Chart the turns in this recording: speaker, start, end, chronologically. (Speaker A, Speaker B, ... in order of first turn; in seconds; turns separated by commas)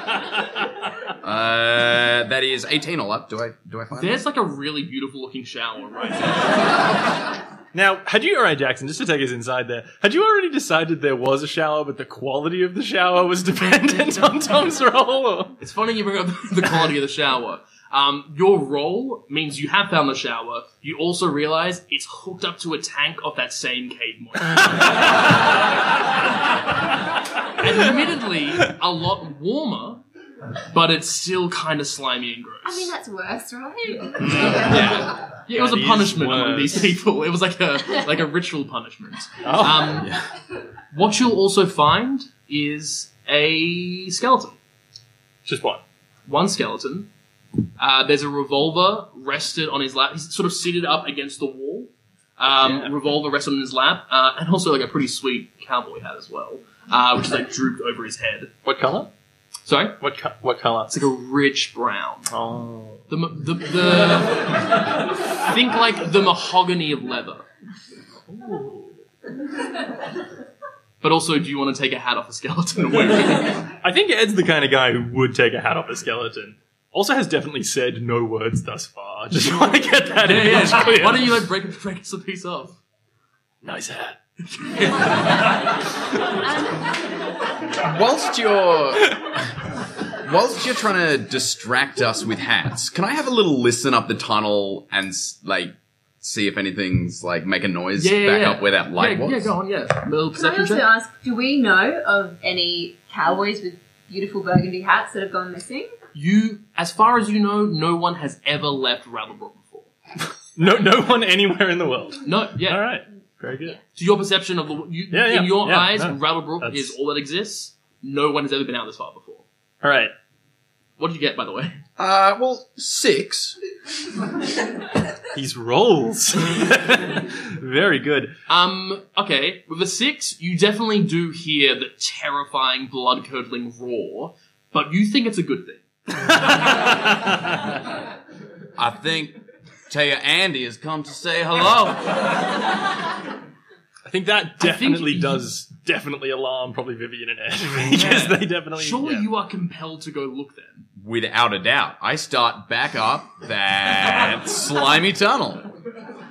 Speaker A: 1.2-4.2, Speaker B: 4.0-6.8, Speaker C: 7.7-15.6, Speaker B: 15.6-25.0, Speaker B: 27.6-30.0, Speaker B: 30.7-32.9, Speaker D: 32.6-35.0, Speaker C: 34.2-36.9, Speaker B: 34.3-40.1, Speaker C: 39.4-40.1, Speaker A: 39.9-40.2, Speaker B: 40.9-44.6, Speaker C: 45.4-45.8, Speaker B: 46.2-47.1, Speaker B: 47.8-58.5, Speaker C: 52.6-52.9, Speaker C: 58.6-59.1, Speaker B: 59.6-60.0, Speaker C: 60.0-61.0, Speaker B: 60.9-62.3, Speaker C: 62.3-63.0, Speaker B: 63.1-67.4, Speaker C: 68.3-68.9, Speaker B: 71.0-73.6, Speaker C: 73.7-81.4, Speaker B: 80.2-82.8, Speaker C: 83.6-84.2, Speaker B: 84.5-85.4, Speaker A: 87.8-89.5, Speaker A: 90.2-99.5, Speaker B: 98.0-100.9, Speaker D: 100.3-105.9, Speaker B: 106.1-109.9, Speaker C: 110.5-113.8, Speaker B: 112.2-112.8, Speaker B: 113.9-119.4, Speaker C: 115.1-116.9, Speaker C: 119.8-120.1, Speaker B: 121.0-121.8, Speaker A: 122.0-123.5, Speaker C: 125.3-128.3, Speaker B: 128.5-135.8, Speaker C: 136.1-137.6, Speaker A: 138.8-139.4, Speaker A: 139.9-142.1, Speaker C: 144.0-149.3, Speaker B: 144.6-145.5, Speaker B: 147.9-150.8, Speaker A: 151.0-155.7